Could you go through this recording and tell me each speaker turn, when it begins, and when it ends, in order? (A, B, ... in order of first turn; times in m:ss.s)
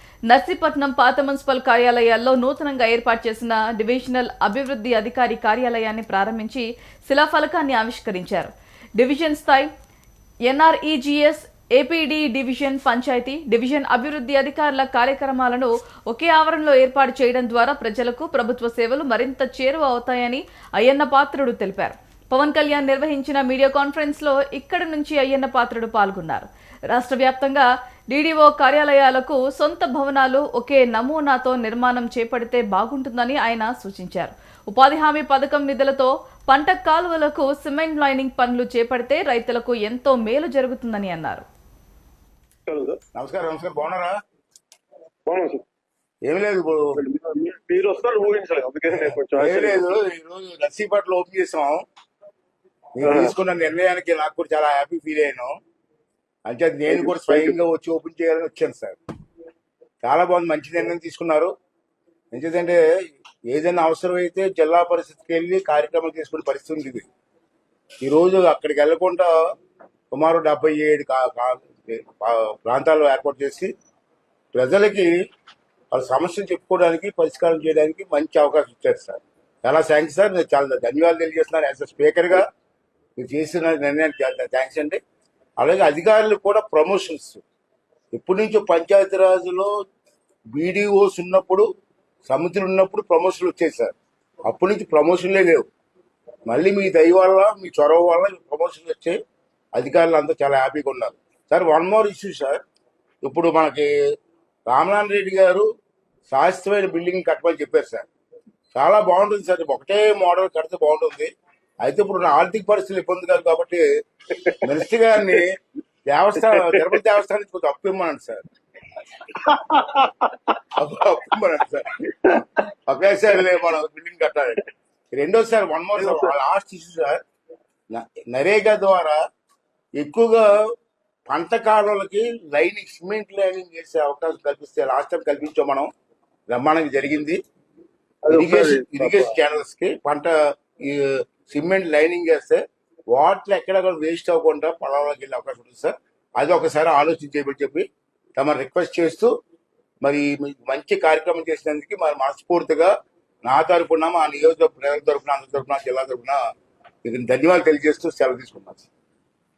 0:00.3-0:09.7 A
0:10.5-0:41.4 A
0:42.7-0:43.0 B
0:43.1-0:44.2 C
0:45.3-0:45.6 B
0:46.2-0:47.0 C
0:47.0-0:50.0 B
0:48.9-0:51.8 C
0:53.0-0:55.5 C
0:53.0-0:53.3 B
0:56.4-0:59.0 C
0:56.9-0:57.5 B
1:00.0-1:01.5 C
1:02.3-1:02.8 C
1:03.5-1:07.1 C
1:08.0-1:09.3 C
1:10.1-1:13.7 C
1:14.5-1:15.1 C
1:15.9-1:22.4 C
1:23.2-1:25.0 C
1:25.6-1:27.4 C
1:28.1-1:29.7 C
1:30.5-1:31.6 C
1:32.3-1:33.9 C
1:34.5-1:35.7 C
1:36.5-1:39.2 C
1:39.7-1:42.6 C
1:43.2-1:43.9 C
1:44.7-1:45.6 C
1:46.3-1:48.0 C
1:48.7-1:51.3 C
1:51.8-1:53.8 C
1:54.4-1:54.7 B
1:54.6-1:55.5 C
1:56.1-1:58.4 C
1:56.5-1:57.0 B
1:59.4-2:00.3 B
2:00.8-2:01.9 C
2:02.9-2:04.6 C
2:05.1-2:07.2 C
2:06.0-2:06.3 B
2:07.9-2:09.2 C
2:10.0-2:10.5 C
2:11.3-2:15.9 C
2:16.5-2:17.4 C
2:18.2-2:19.3 B
2:18.3-2:22.6 C
2:23.1-2:29.3 C
2:30.0-2:32.9 C
2:33.4-2:36.4 C
2:37.0-2:38.9 C